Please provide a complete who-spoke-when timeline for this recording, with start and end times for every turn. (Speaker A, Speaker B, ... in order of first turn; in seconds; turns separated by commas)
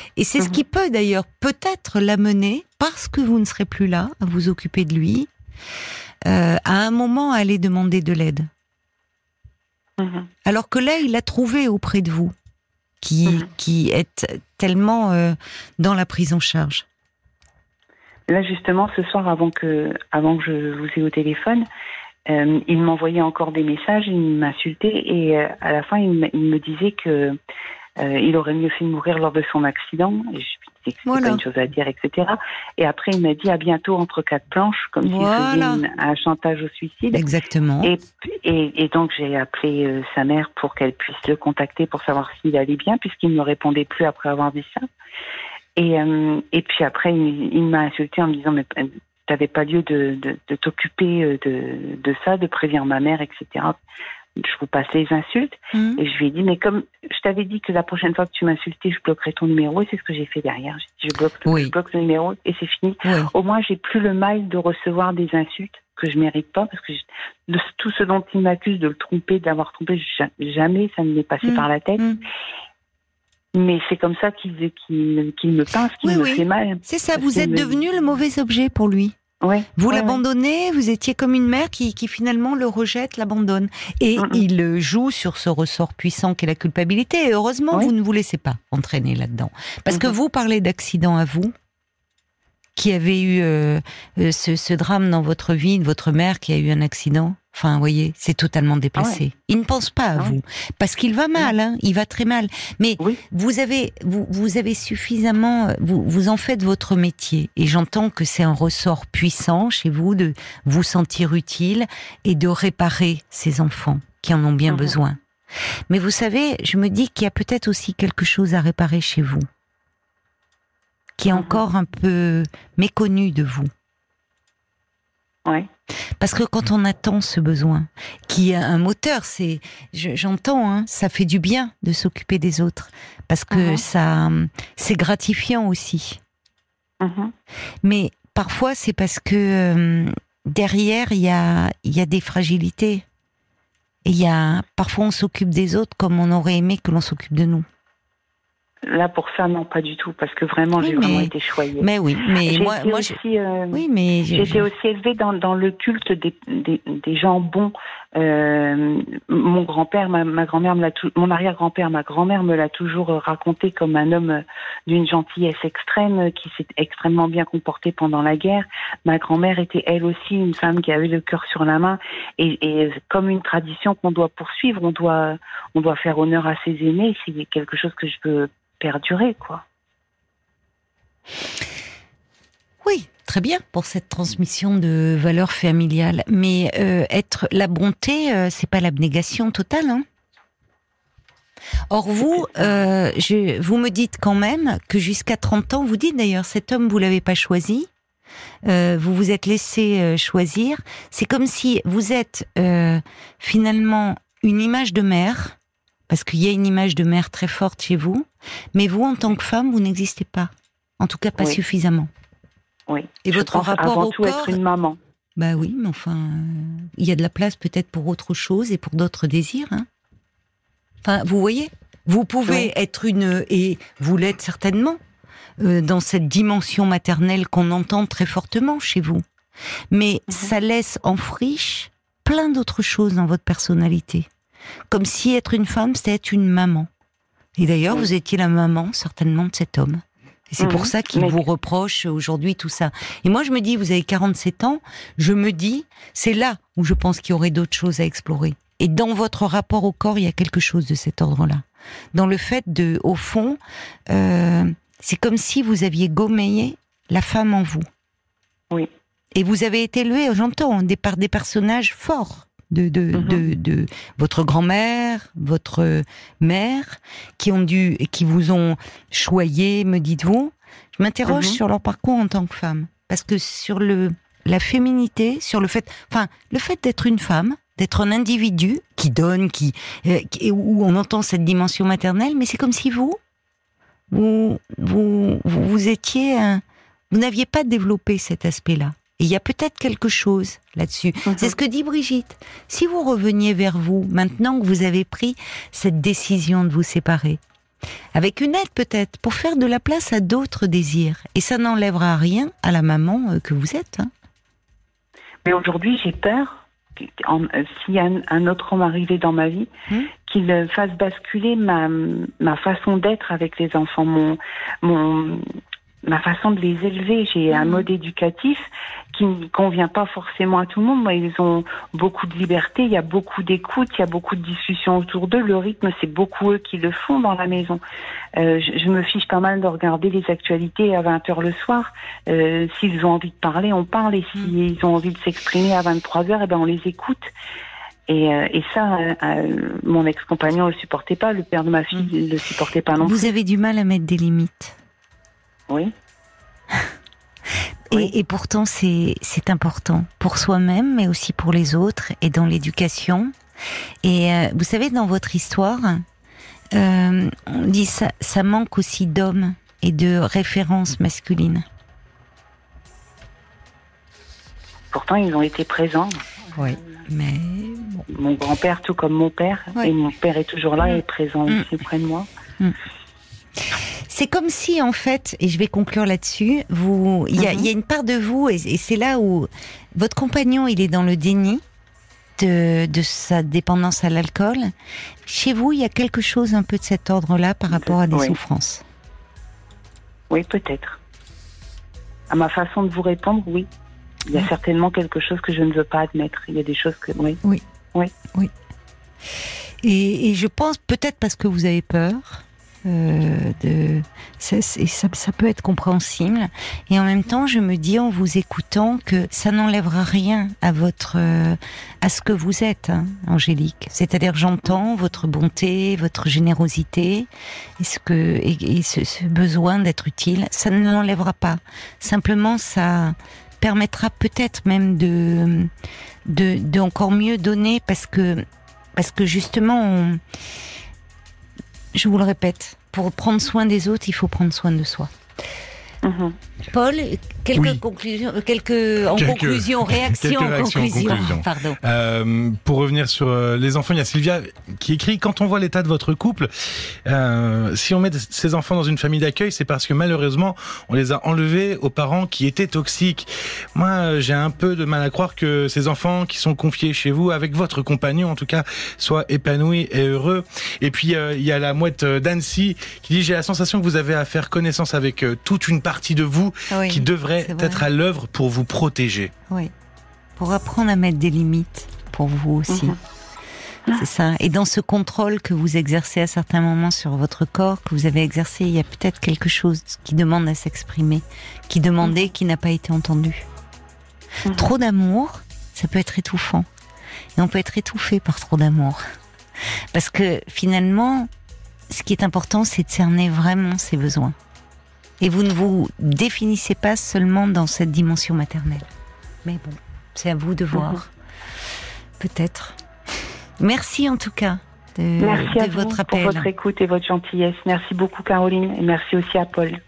Speaker A: 0.1-5.3, Speaker A: 6.2-8.5, Speaker B: 10.0-10.3, Speaker A: 10.4-12.3, Speaker A: 13.0-16.9, Speaker B: 18.3-21.6, Speaker B: 22.3-27.4, Speaker B: 28.0-37.3, Speaker A: 31.1-31.4, Speaker A: 35.0-35.8, Speaker A: 37.1-37.9, Speaker B: 37.8-44.9, Speaker B: 45.8-53.8, Speaker B: 54.4-72.0, Speaker A: 55.7-56.0, Speaker A: 61.4-61.7, Speaker A: 63.0-63.3, Speaker A: 71.4-72.2, Speaker B: 73.5-77.8, Speaker A: 76.0-79.2, Speaker B: 79.4-80.2, Speaker A: 79.8-91.5, Speaker B: 84.2-84.4, Speaker B: 89.9-90.1, Speaker A: 92.8-115.2, Speaker B: 114.7-114.9, Speaker A: 115.9-119.5, Speaker A: 121.2-123.7, Speaker B: 121.3-121.6, Speaker A: 126.2-136.2, Speaker B: 133.5-133.8, Speaker B: 137.0-137.3, Speaker A: 137.8-143.1, Speaker A: 144.1-147.7, Speaker B: 148.8-151.9, Speaker A: 150.8-153.2, Speaker B: 152.4-179.6, Speaker A: 153.7-154.7, Speaker A: 182.8-190.1, Speaker A: 191.9-197.9, Speaker B: 192.3-192.7, Speaker A: 198.6-205.6, Speaker A: 206.1-212.1, Speaker B: 212.9-215.0, Speaker A: 213.2-214.6, Speaker A: 215.4-219.9, Speaker A: 221.0-225.0, Speaker A: 225.6-229.2, Speaker A: 229.9-234.3, Speaker A: 234.9-236.9, Speaker A: 237.6-257.9, Speaker B: 240.6-241.4, Speaker A: 259.4-283.2, Speaker B: 263.1-263.4, Speaker B: 271.3-271.6, Speaker A: 284.1-297.4, Speaker B: 291.2-291.5, Speaker A: 298.1-304.1, Speaker B: 305.4-309.7, Speaker B: 310.2-315.4, Speaker B: 316.0-327.8, Speaker A: 317.5-317.9, Speaker B: 328.4-337.3, Speaker B: 338.1-343.2, Speaker A: 343.0-344.8, Speaker A: 347.9-353.3, Speaker A: 354.0-356.0, Speaker A: 356.7-361.6, Speaker B: 364.9-366.8, Speaker A: 366.6-368.1, Speaker B: 368.1-372.3, Speaker A: 374.1-381.6, Speaker B: 377.4-377.7, Speaker A: 382.4-384.7, Speaker A: 385.2-388.8, Speaker B: 387.9-388.4, Speaker B: 390.3-391.0, Speaker B: 392.3-393.7, Speaker B: 394.2-397.4, Speaker A: 399.8-417.3, Speaker A: 417.8-425.7, Speaker A: 426.2-428.4, Speaker A: 429.0-430.2, Speaker A: 431.9-435.1, Speaker B: 436.0-436.4, Speaker A: 436.7-441.8, Speaker C: 437.5-437.8, Speaker C: 439.1-469.3, Speaker A: 466.7-467.9, Speaker A: 470.4-473.0, Speaker B: 472.7-473.0, Speaker A: 473.9-483.5, Speaker A: 484.5-486.7, Speaker A: 487.4-489.0, Speaker A: 489.9-491.3, Speaker A: 491.9-494.4, Speaker A: 495.2-498.9, Speaker A: 499.4-501.1, Speaker B: 500.7-501.0, Speaker A: 502.2-502.8, Speaker A: 503.6-506.5, Speaker B: 505.2-509.8